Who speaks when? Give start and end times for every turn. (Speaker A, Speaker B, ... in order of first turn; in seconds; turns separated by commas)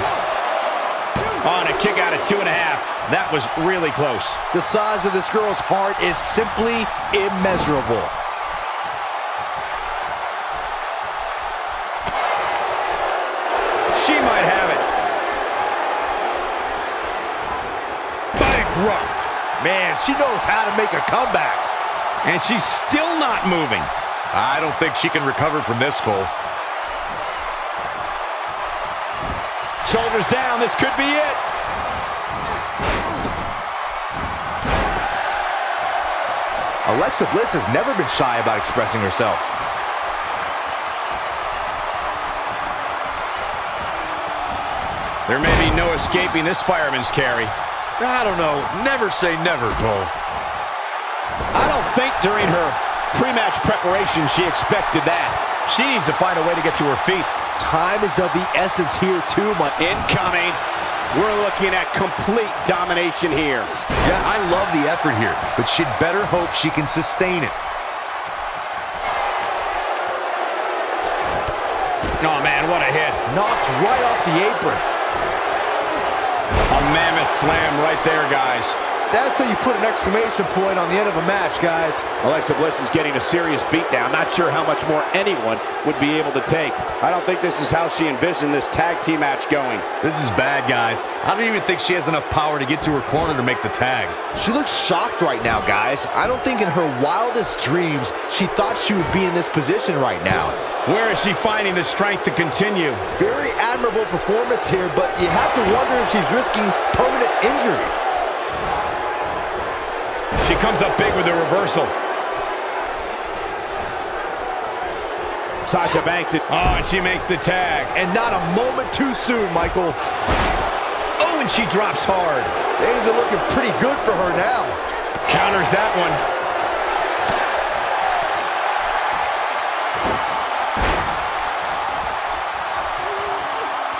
Speaker A: 1.4-4.4, Speaker B: 4.5-8.1, Speaker A: 13.9-14.8, Speaker C: 18.4-19.3, Speaker B: 19.6-21.7, Speaker A: 22.2-23.9, Speaker C: 24.3-26.3, Speaker A: 29.8-31.4, Speaker B: 36.9-39.5, Speaker A: 45.2-47.5, Speaker C: 48.0-50.1, Speaker A: 51.5-57.3, Speaker B: 57.6-59.7, Speaker A: 59.8-60.6, Speaker A: 61.1-63.7, Speaker C: 64.0-67.6, Speaker A: 72.2-73.2, Speaker B: 73.3-74.8, Speaker A: 76.7-78.8, Speaker B: 79.1-82.0, Speaker A: 82.2-89.8, Speaker C: 90.0-94.2, Speaker B: 94.3-100.6, Speaker A: 100.8-103.0, Speaker B: 103.2-107.9, Speaker A: 110.4-111.9, Speaker A: 115.7-117.9, Speaker B: 117.9-120.0, Speaker A: 121.2-122.5, Speaker B: 122.8-124.8, Speaker A: 125.3-126.2